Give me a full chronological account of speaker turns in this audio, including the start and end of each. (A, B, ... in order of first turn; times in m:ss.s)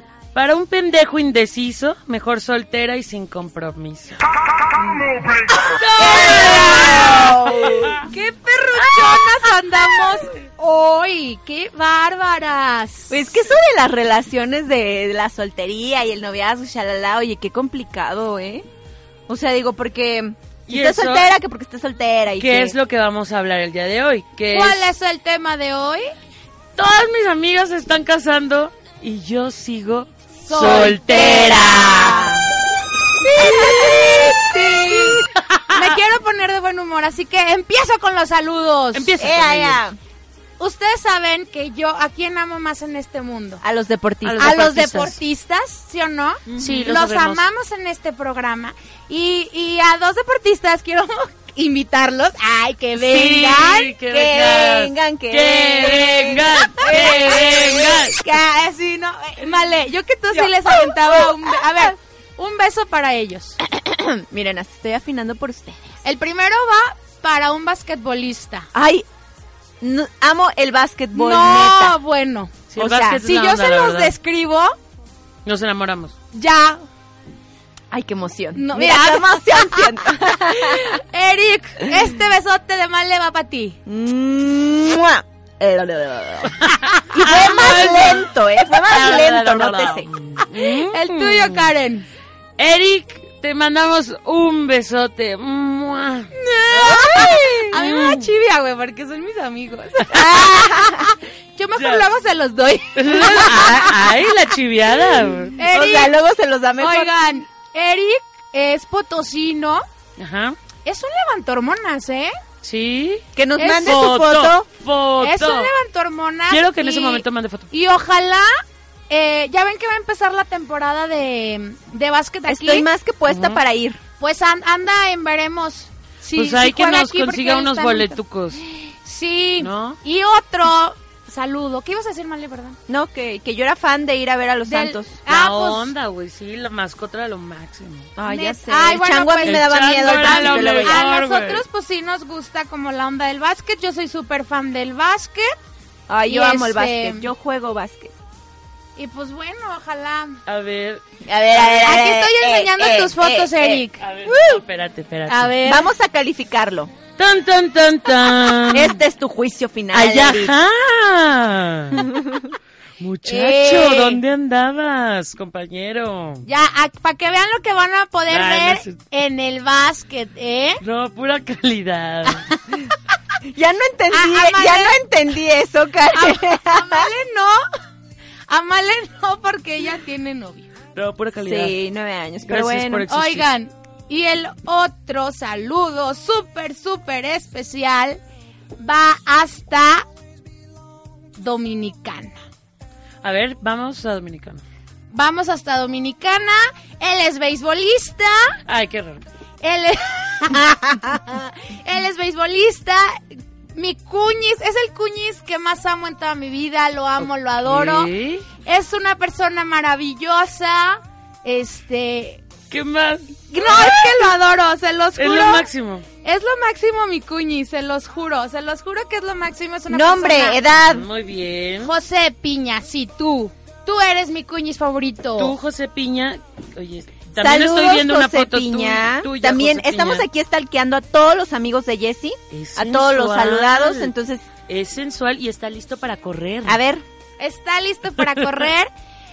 0:00.3-0:04.2 A
0:05.7-0:07.8 A
0:06.0-0:08.0 B
0:06.0-0:07.0 C
0:08.0-0:13.2 C
0:09.0-0:09.2 A
0:13.1-0:18.6 B
0:19.3-0:22.8 B
0:20.7-0:21.3 A
0:22.4-0:24.9 A
0:24.5-0:26.1 C
0:26.8-0:32.3 A
0:30.4-0:31.3 C
0:30.8-0:32.4 B
0:33.3-0:35.1 C
0:33.3-0:35.3 B
0:35.7-0:39.3 C
0:38.9-0:39.8 A
0:39.2-0:40.0 B
0:40.6-0:43.6 C
0:43.6-0:44.9 B
0:44.2-0:45.2 A
0:44.4-0:53.9 C
0:46.5-0:46.9 B
0:46.6-0:47.4 A
0:53.0-0:58.2 A
0:54.1-0:59.5 B
0:56.8-0:57.3 C
0:59.3-1:03.6 C
1:00.3-1:01.9 B
1:03.6-1:06.0 B
1:06.0-1:08.7 C
1:08.7-1:09.0 B
1:09.8-1:12.0 B
1:11.1-1:12.6 C
1:12.7-1:14.1 A
1:12.8-1:13.2 B
1:13.2-1:14.7 C
1:15.4-1:16.1 A
1:16.3-1:16.8 C
1:17.9-1:21.0 B
1:18.6-1:19.9 C
1:20.5-1:23.8 C
1:23.8-1:26.6 B
1:26.6-1:28.3 A
1:27.1-1:30.1 B
1:27.8-1:28.0 C
1:28.8-1:31.7 A
1:30.9-1:32.1 C
1:32.6-1:38.3 A
1:36.4-1:43.8 C
1:36.8-1:37.7 B
1:40.1-1:41.1 B
1:41.8-1:42.1 A
1:43.0-1:45.6 A
1:45.6-1:46.2 C
1:45.6-1:47.1 B
1:46.8-1:49.8 C
1:50.2-1:50.6 A
1:50.8-1:52.3 C
1:52.6-1:55.7 A
1:53.4-1:54.6 B
1:53.6-1:53.9 C
1:55.2-1:58.5 C
1:56.5-1:57.7 A
1:59.1-2:02.9 C
2:02.5-2:04.0 B
2:03.3-2:03.6 A
2:04.2-2:08.2 C
2:06.3-2:08.6 A
2:09.0-2:12.8 C
2:09.6-2:10.0 A
2:12.9-2:15.2 B
2:14.6-2:15.9 C
2:15.3-2:18.1 A
2:18.2-2:21.1 B
2:18.2-2:25.6 C
2:19.4-2:21.6 A
2:26.1-2:28.1 B
2:26.3-2:27.3 C
2:29.0-2:30.4 C
2:30.4-2:31.0 A
2:31.2-2:34.6 B
2:31.5-2:34.0 C
2:34.0-2:35.6 A
2:35.3-2:35.8 C
2:35.6-2:36.9 B
2:37.2-2:39.0 A
2:38.7-2:40.5 B
2:39.9-2:42.0 A
2:41.9-2:42.5 B
2:43.0-2:46.4 A
2:43.2-2:44.2 C
2:46.4-2:50.8 C
2:48.3-2:48.9 A
2:50.8-2:52.4 A
2:53.5-2:57.1 B
2:54.1-2:55.0 C
2:56.1-2:57.6 C
2:58.5-3:00.7 C
3:00.9-3:01.8 A
3:01.4-3:03.1 B
3:02.4-3:03.5 A
3:03.1-3:08.2 C
3:08.8-3:10.0 C
3:11.4-3:12.4 C
3:13.2-3:14.6 A
3:15.1-3:18.6 C
3:18.7-3:19.2 A
3:19.6-3:28.1 C
3:27.6-3:28.4 A
3:28.6-3:32.4 C
3:32.7-3:34.3 A
3:33.5-3:35.6 C
3:35.2-3:36.0 A
3:36.2-3:40.6 C
3:39.9-3:41.0 B
3:40.8-3:41.9 A
3:41.8-3:45.5 C
3:45.4-3:50.2 A
3:47.4-3:54.5 B
3:52.5-3:54.1 A
3:54.7-3:56.8 A
3:56.6-3:57.0 B
3:57.4-3:58.9 C
3:58.3-3:58.6 A